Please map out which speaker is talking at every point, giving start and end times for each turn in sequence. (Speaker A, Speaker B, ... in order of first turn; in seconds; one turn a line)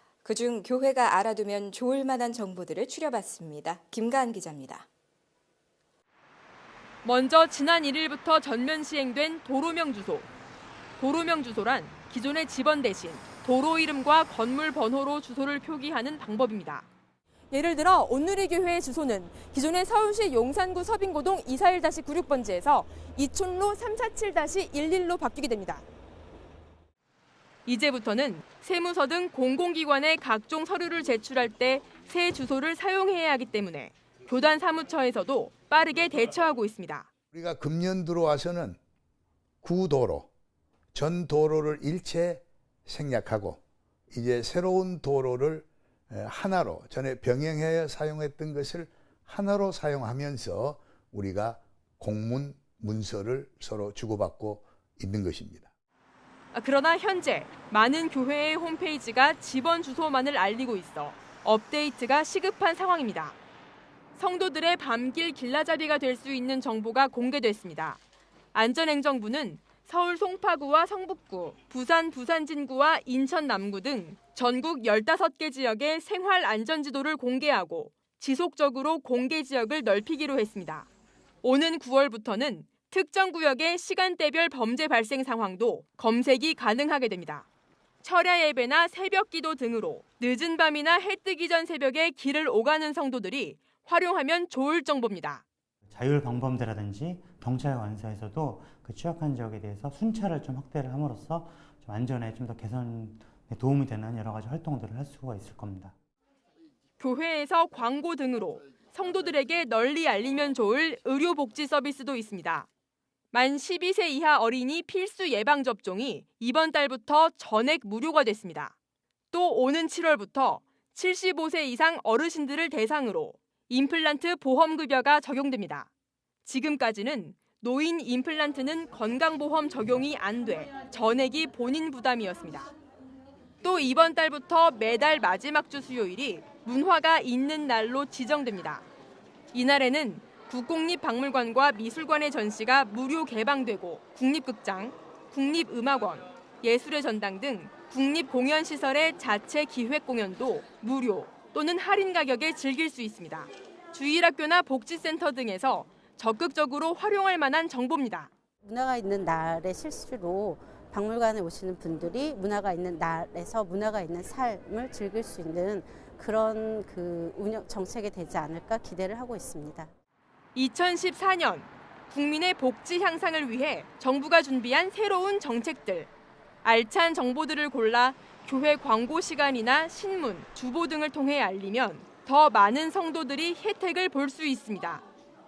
Speaker A: 0.2-4.8
Speaker B: 7.0-10.3
Speaker B: 11.0-16.8
Speaker B: 17.5-25.8
Speaker B: 27.6-37.0
Speaker C: 37.3-38.8
Speaker C: 39.6-40.3
Speaker C: 40.9-43.6
Speaker C: 44.1-55.7
Speaker B: 56.5-63.3
Speaker B: 64.2-68.0
Speaker B: 68.5-80.8
Speaker B: 81.4-87.4
Speaker B: 88.0-95.4
Speaker D: 95.9-105.9
Speaker B: 107.0-112.6
Speaker B: 113.3-118.7
Speaker B: 119.3-120.5
Speaker B: 121.0-125.8
Speaker B: 126.5-132.7
Speaker B: 133.6-138.8
Speaker B: 139.5-158.3
Speaker E: 158.6-169.9
Speaker B: 170.5-176.1
Speaker B: 176.6-185.0